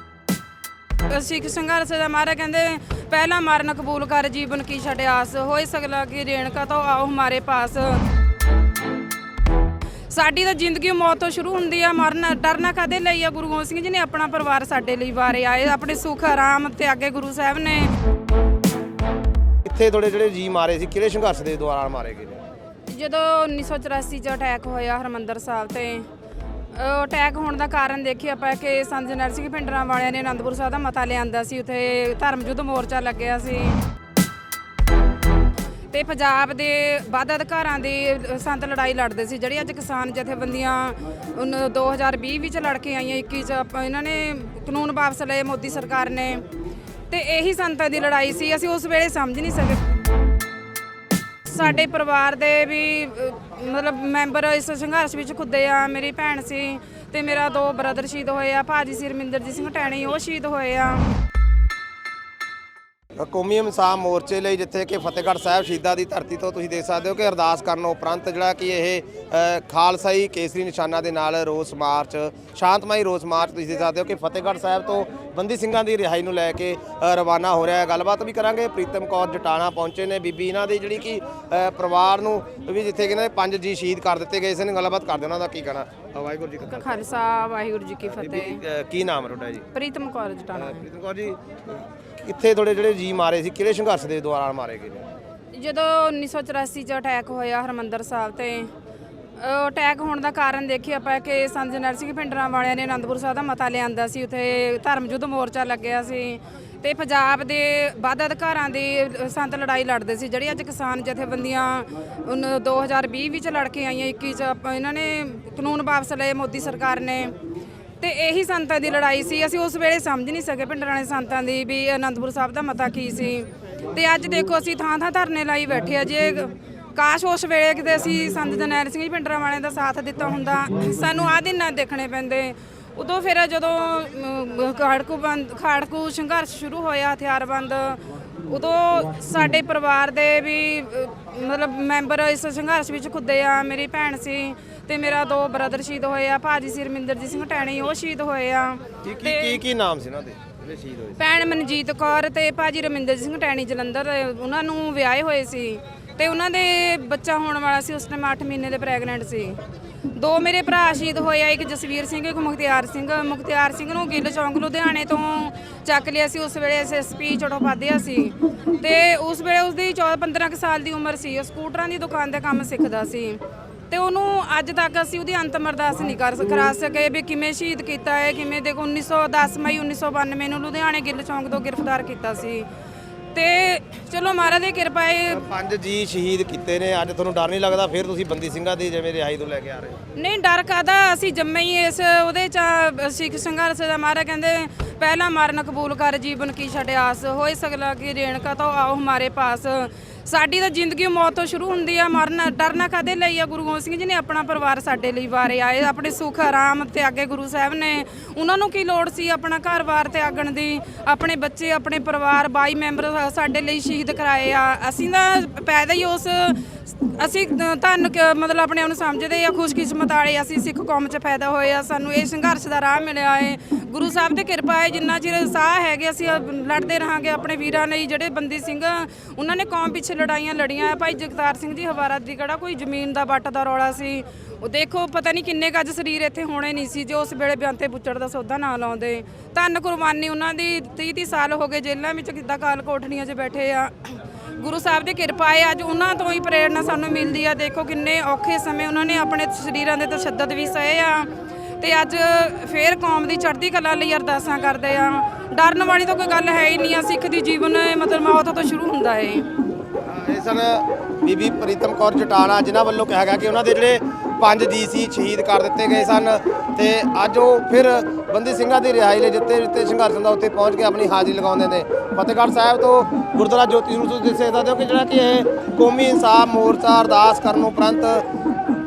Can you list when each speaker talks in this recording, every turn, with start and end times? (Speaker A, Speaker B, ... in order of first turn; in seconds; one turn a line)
Speaker A: 1.1-8.0
Speaker A: 10.1-17.9
Speaker B: 19.6-22.4
Speaker A: 22.9-26.1
Speaker A: 26.7-33.8
Speaker A: 35.9-46.4
Speaker A: 47.1-49.9
Speaker A: 51.4-61.1
Speaker B: 63.2-87.0
Speaker A: 86.7-88.6
Speaker B: 88.0-89.7
Speaker A: 89.7-90.8
Speaker B: 90.5-95.1
Speaker A: 95.5-98.7
Speaker A: 99.4-117.3
Speaker A: 118.0-149.6
Speaker B: 149.0-151.2
Speaker A: 151.2-159.6
Speaker A: 160.2-182.7
Speaker A: 183.3-185.4
Speaker B: 185.3-190.0
Speaker A: 190.1-259.5
Speaker B: 260.0-278.2